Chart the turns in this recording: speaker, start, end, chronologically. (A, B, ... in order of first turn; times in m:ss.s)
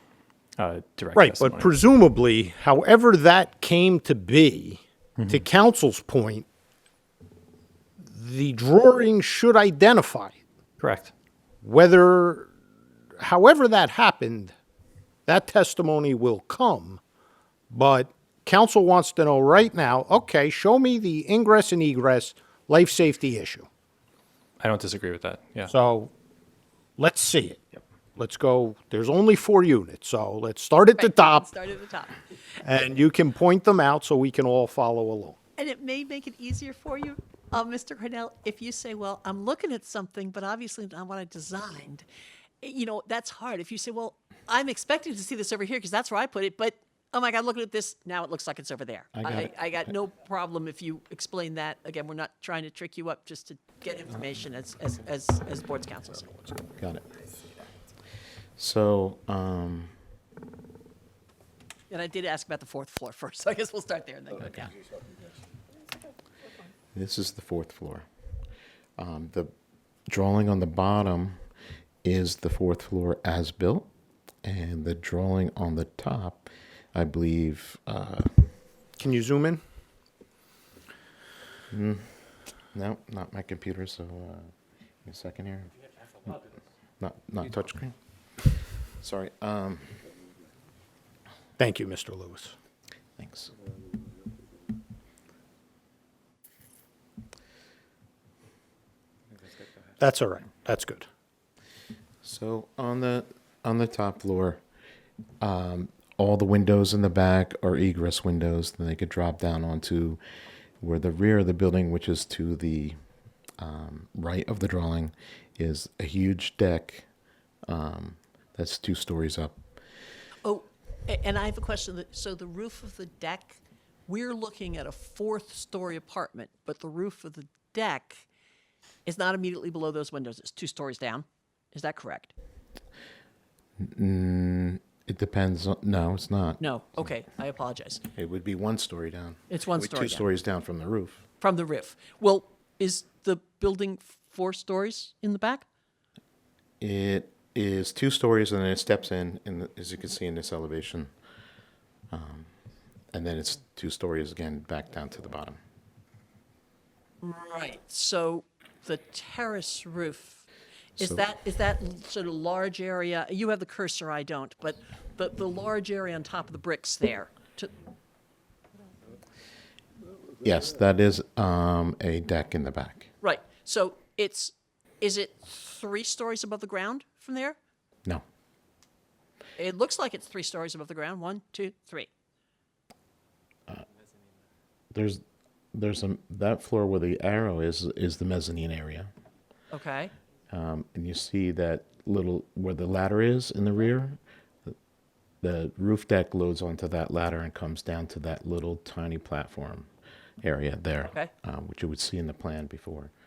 0:00.6-0:01.7 A
0:01.1-0:06.5 B
0:05.2-0:05.4 A
0:08.0-0:10.4 B
0:10.8-0:11.1 A
0:11.6-0:12.5 B
0:13.2-0:14.5 B
0:15.3-0:17.0 B
0:17.7-0:23.7 B
0:24.6-0:25.7 A
0:25.7-0:26.1 B
0:27.0-0:27.6 B
0:28.2-0:31.5 B
0:31.0-0:32.2 C
0:32.6-0:35.4 B
0:35.6-0:42.0 C
0:42.6-0:56.5 C
0:49.1-0:49.5 D
0:56.8-0:57.0 D
0:58.6-1:00.0 D
1:01.9-1:04.7 C
1:06.9-1:08.0 D
1:09.0-1:09.5 D
1:10.1-1:11.4 D
1:12.0-1:13.9 D
1:14.4-1:18.5 D
1:19.0-1:19.6 B
1:21.7-1:22.2 D
1:22.7-1:24.5 D
1:25.0-1:25.7 D
1:27.0-1:30.0 D
1:31.6-1:32.5 B
1:33.2-1:33.5 D
1:40.0-1:41.0 B
1:42.2-1:44.6 D
1:45.4-1:50.2 D
1:50.8-1:53.0 D
1:53.6-1:57.0 D
1:57.7-1:59.6 D
2:00.4-2:08.3 C
2:09.0-2:12.3 C
2:13.8-2:17.1 D
2:16.6-2:18.0 C
2:18.1-2:21.2 D
2:19.5-2:20.2 C
2:21.4-2:25.6 C
2:26.8-2:31.1 D
2:32.1-2:32.5 D
2:33.1-2:35.6 D
2:37.2-2:40.4 C
2:41.0-2:47.7 C
2:41.0-2:41.3 D
2:50.4-2:53.1 D
2:53.2-2:57.6 C
2:59.6-3:02.1 C
3:04.9-3:05.2 D
3:05.7-3:09.1 D
3:09.7-3:10.1 C
3:10.5-3:14.7 D
3:15.4-3:19.9 D
3:20.4-3:23.1 D